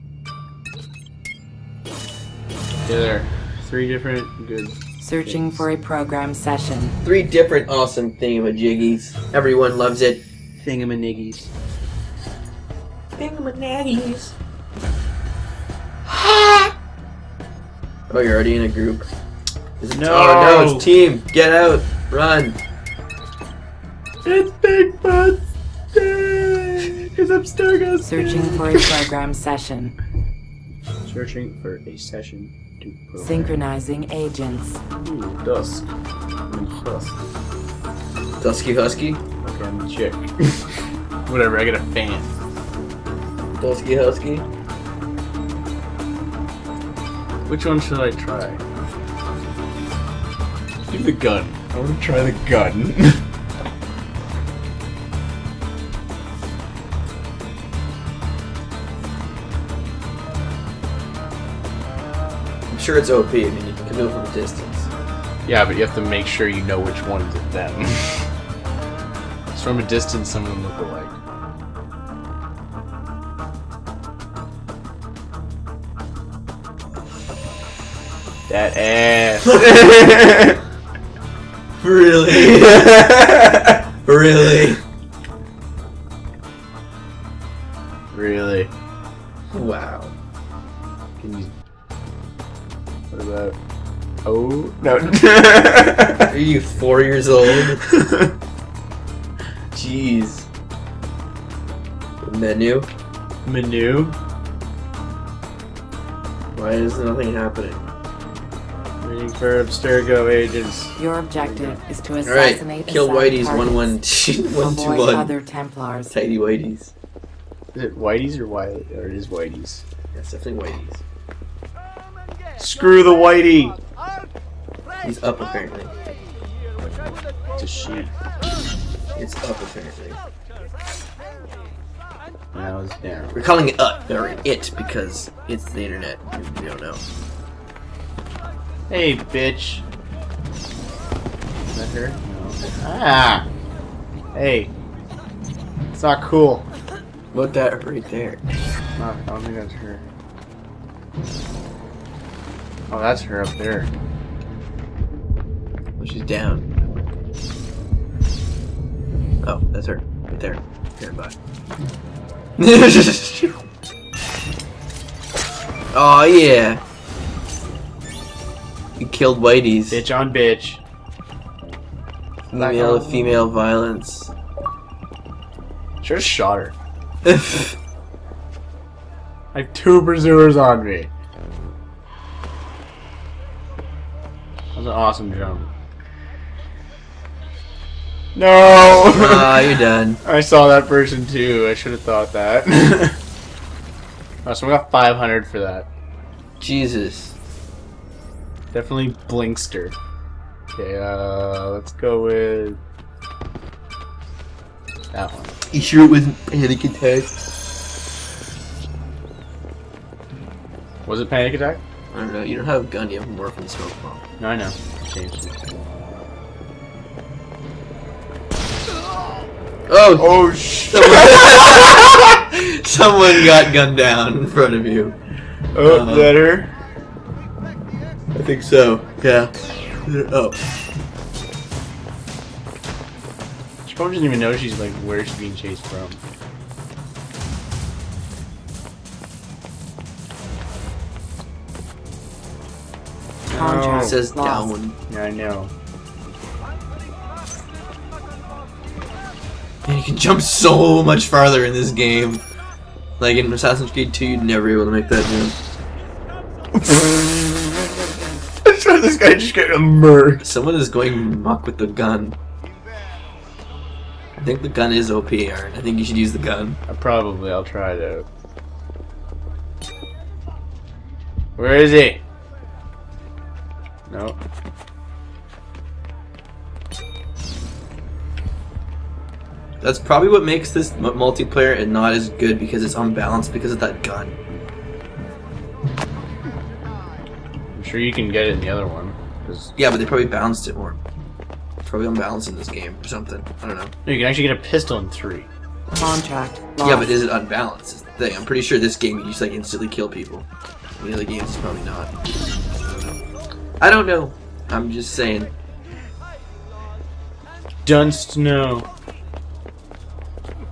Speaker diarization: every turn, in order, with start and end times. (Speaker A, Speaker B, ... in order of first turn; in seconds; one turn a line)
Speaker A: 2.8-5.6
Speaker B: 5.0-7.0
Speaker C: 7.0-10.2
Speaker A: 10.6-11.5
Speaker C: 13.2-14.3
Speaker A: 16.1-16.7
Speaker C: 18.1-19.1
Speaker C: 19.8-22.6
Speaker A: 19.9-20.9
Speaker A: 24.2-29.0
Speaker B: 28.0-29.9
Speaker A: 31.0-33.5
Speaker B: 33.2-34.8
Speaker A: 35.0-35.9
Speaker A: 36.5-37.2
Speaker C: 38.4-39.2
Speaker A: 39.4-42.4
Speaker C: 43.6-44.5
Speaker A: 47.5-48.6
Speaker A: 50.9-53.2
Speaker C: 62.7-64.9
Speaker A: 65.4-68.3
Speaker A: 69.5-71.2
Speaker A: 78.5-80.6
Speaker C: 79.5-79.9
Speaker C: 81.8-82.9
Speaker A: 82.4-83.9
Speaker C: 84.0-84.8
Speaker A: 88.1-88.7
Speaker C: 89.5-90.1
Speaker A: 91.2-91.5
Speaker A: 93.1-93.6
Speaker A: 94.2-96.3
Speaker C: 96.3-97.9
Speaker A: 97.5-98.3
Speaker C: 99.7-100.5
Speaker C: 102.2-102.9
Speaker A: 103.4-104.2
Speaker C: 106.5-107.8
Speaker A: 109.0-111.8
Speaker B: 111.0-113.9
Speaker C: 112.2-115.3
Speaker B: 114.6-116.1
Speaker C: 116.1-116.9
Speaker A: 117.7-119.8
Speaker C: 120.1-121.0
Speaker A: 122.6-123.8
Speaker C: 125.0-125.9
Speaker A: 127.6-128.1
Speaker C: 129.2-130.2
Speaker A: 132.5-133.4
Speaker C: 133.3-137.0
Speaker A: 138.9-139.8
Speaker A: 141.7-143.4
Speaker A: 144.3-144.7
Speaker A: 145.9-146.7
Speaker C: 147.3-148.4
Speaker A: 149.0-150.0
Speaker A: 152.9-153.9
Speaker C: 156.0-156.8
Speaker C: 159.4-161.3
Speaker C: 162.6-163.5
Speaker C: 165.9-166.8
Speaker C: 169.0-170.0
Speaker A: 169.9-170.8
Speaker A: 172.5-173.5
Speaker C: 172.5-174.3
Speaker A: 176.0-176.7
Speaker C: 177.2-177.8
Speaker A: 179.5-181.1
Speaker A: 184.7-185.7
Speaker A: 188.3-193.2
Speaker C: 189.1-190.2
Speaker A: 194.4-195.9
Speaker C: 196.6-197.3
Speaker A: 198.7-199.9
Speaker A: 200.7-202.8
Speaker A: 205.1-205.5
Speaker C: 205.7-207.3
Speaker A: 211.0-211.8
Speaker C: 212.1-214.2
Speaker A: 214.4-216.0
Speaker C: 219.9-225.2
Speaker A: 220.2-222.4
Speaker A: 225.7-226.7
Speaker C: 225.8-226.3
Speaker C: 228.3-229.5
Speaker C: 230.1-230.6
Speaker A: 233.8-236.2
Speaker B: 243.5-244.7
Speaker A: 243.5-244.2
Speaker C: 243.9-245.0
Speaker A: 245.1-245.7
Speaker C: 249.8-252.4
Speaker C: 253.2-255.6
Speaker A: 256.8-257.6
Speaker A: 258.6-260.4
Speaker C: 260.4-262.4
Speaker C: 264.4-266.8
Speaker A: 266.9-268.3
Speaker A: 271.6-272.2
Speaker A: 274.1-274.4
Speaker C: 279.8-284.3
Speaker A: 287.7-289.7
Speaker C: 289.8-291.0
Speaker C: 291.8-293.9
Speaker A: 294.0-295.5
Speaker B: 295.9-297.1
Speaker C: 296.8-300.5
Speaker C: 301.0-302.1
Speaker C: 302.8-303.2
Speaker C: 303.8-305.5
Speaker A: 307.8-308.9